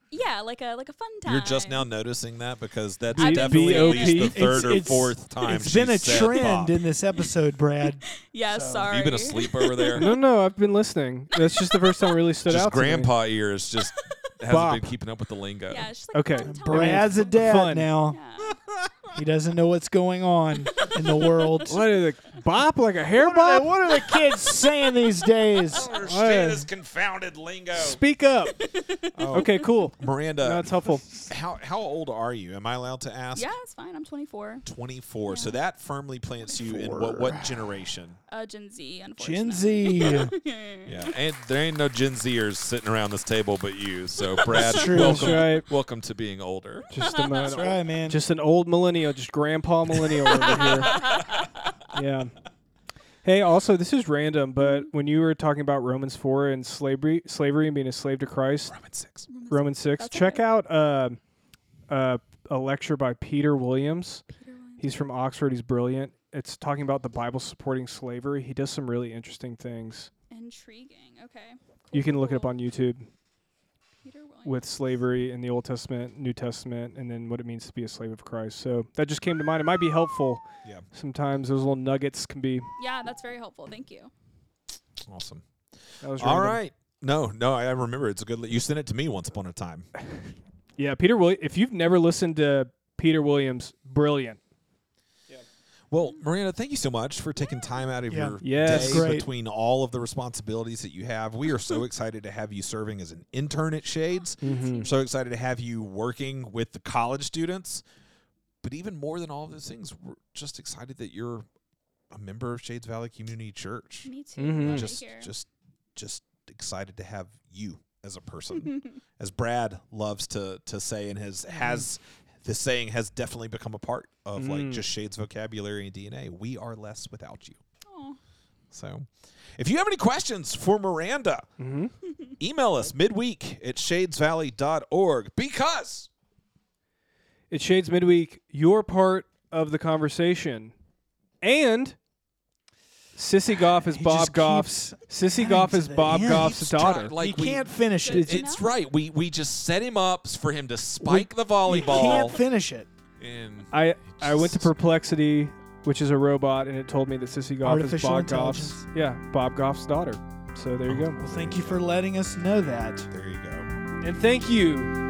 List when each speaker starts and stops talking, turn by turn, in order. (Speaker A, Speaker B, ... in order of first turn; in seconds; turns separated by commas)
Speaker A: 0.1-1.9, Speaker B: 1.3-6.8, Speaker C: 3.1-4.4, Speaker A: 3.2-4.9, Speaker D: 4.3-8.9, Speaker A: 7.9-10.1, Speaker B: 8.8-10.0, Speaker C: 9.9-13.1, Speaker A: 11.4-12.1, Speaker B: 12.5-15.9, Speaker C: 14.5-14.9, Speaker A: 15.7-18.6, Speaker C: 16.1-17.9, Speaker D: 16.4-18.2, Speaker D: 19.1-21.8, Speaker A: 20.8-21.6, Speaker C: 21.7-23.7, Speaker D: 23.1-25.9, Speaker A: 23.9-24.9, Speaker B: 25.7-28.0, Speaker C: 26.0-26.7, Speaker C: 27.8-28.6, Speaker A: 28.6-29.7, Speaker B: 29.1-33.5, Speaker C: 29.3-31.3, Speaker A: 33.4-34.6, Speaker B: 34.6-38.2, Speaker A: 35.2-35.6, Speaker D: 36.7-37.5, Speaker A: 38.3-41.1, Speaker D: 39.2-40.3, Speaker B: 40.9-46.9, Speaker A: 44.4-45.0, Speaker D: 44.5-45.4, Speaker C: 44.9-45.7, Speaker C: 46.9-51.0, Speaker A: 47.0-47.8, Speaker D: 47.5-48.2, Speaker A: 50.5-51.7, Speaker C: 51.9-52.4, Speaker C: 53.2-58.7, Speaker A: 54.6-54.9, Speaker B: 58.7-59.3, Speaker A: 59.3-60.4, Speaker C: 59.5-61.2, Speaker C: 61.9-64.2, Speaker A: 64.3-65.0, Speaker C: 64.8-70.1, Speaker A: 70.3-72.5, Speaker C: 71.9-73.1, Speaker A: 74.0-74.6, Speaker C: 74.5-82.7, Speaker A: 82.8-84.1, Speaker B: 85.0-85.5, Speaker C: 86.0-86.6, Speaker B: 86.2-89.9, Speaker C: 90.8-94.4, Speaker B: 95.9-107.8, Speaker D: 98.1-99.3, Speaker C: 98.4-99.1, Speaker A: 104.4-104.9, Speaker C: 104.4-104.9, Speaker B: 108.6-111.5, Speaker B: 112.1-127.6, Speaker A: 114.0-115.3, Speaker C: 114.4-114.9, Speaker C: 124.4-124.8, Speaker A: 127.9-128.2, Speaker B: 128.7-131.5, Speaker C: 131.6-131.9, Speaker B: 132.4-136.1, Speaker C: 137.5-140.7, Speaker C: 141.4-142.0, Speaker C: 143.1-147.1, Speaker D: 143.8-146.6, Speaker B: 146.1-152.4, Speaker D: 147.2-148.4, Speaker A: 147.9-148.8, Speaker D: 151.0-152.9, Speaker A: 151.9-152.3, Speaker B: 153.2-154.8, Speaker C: 153.7-161.2, Speaker D: 157.6-158.9, Speaker B: 160.9-161.9, Speaker D: 161.2-163.1, Speaker B: 163.1-163.7, Speaker C: 164.0-164.9